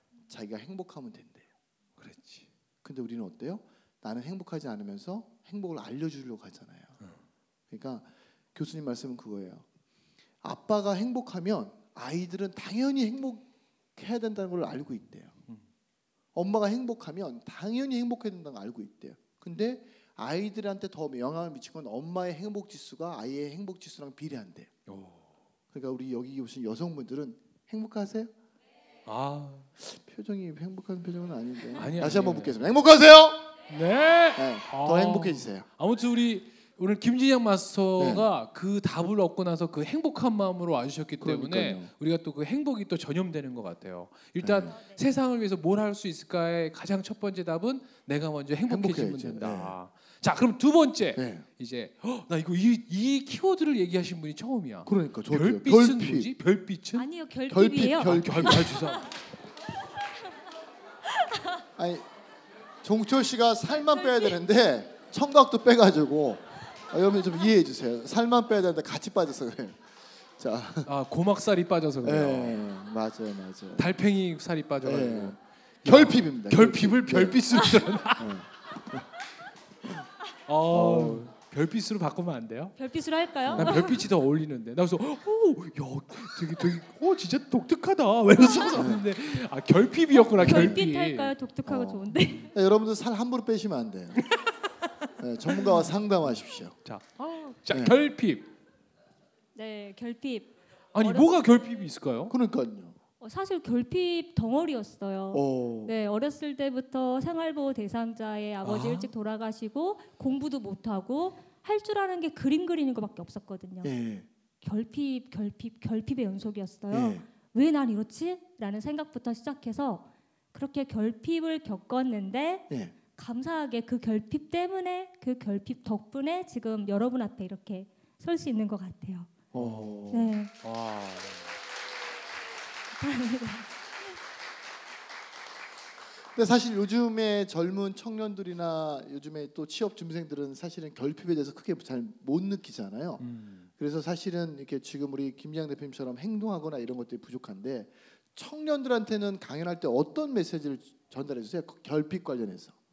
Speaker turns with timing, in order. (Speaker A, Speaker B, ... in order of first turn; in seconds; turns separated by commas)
Speaker A: 0.3-1.4, Speaker B: 2.0-2.5, Speaker A: 2.8-6.9, Speaker A: 7.7-9.6, Speaker A: 10.4-15.3, Speaker A: 16.3-24.7, Speaker B: 24.9-25.2, Speaker A: 25.7-28.3, Speaker B: 29.1-29.7, Speaker A: 29.8-33.5, Speaker B: 31.8-32.6, Speaker B: 33.7-57.0, Speaker A: 34.3-35.6, Speaker A: 38.0-38.3, Speaker A: 41.2-41.9, Speaker A: 44.4-44.8, Speaker A: 48.7-49.8, Speaker A: 51.1-51.5, Speaker A: 54.9-56.3, Speaker C: 56.9-58.8, Speaker A: 57.5-58.8, Speaker B: 58.0-59.1, Speaker A: 61.8-62.1, Speaker A: 62.8-69.8, Speaker C: 63.9-64.4, Speaker A: 70.4-70.9, Speaker B: 70.8-72.6, Speaker A: 72.0-73.9, Speaker B: 73.8-78.4, Speaker A: 74.8-79.1, Speaker B: 80.5-82.8, Speaker A: 80.7-81.3, Speaker C: 82.8-84.0, Speaker B: 83.5-91.3, Speaker A: 83.5-84.0, Speaker A: 88.7-89.0, Speaker C: 90.1-92.5, Speaker A: 90.3-90.8, Speaker A: 91.6-94.3, Speaker A: 95.2-96.8, Speaker B: 96.8-98.5, Speaker A: 97.7-98.0, Speaker C: 99.5-101.4, Speaker B: 100.9-102.3, Speaker A: 102.3-103.0, Speaker C: 103.2-113.9, Speaker A: 105.3-105.9, Speaker B: 108.6-109.1, Speaker A: 113.8-114.3, Speaker C: 114.6-129.3, Speaker A: 116.9-117.2, Speaker A: 122.7-122.9, Speaker B: 129.5-131.5, Speaker A: 129.5-130.4, Speaker C: 130.1-130.5, Speaker C: 133.0-133.7, Speaker A: 136.3-143.2, Speaker B: 143.2-143.7, Speaker A: 143.8-152.7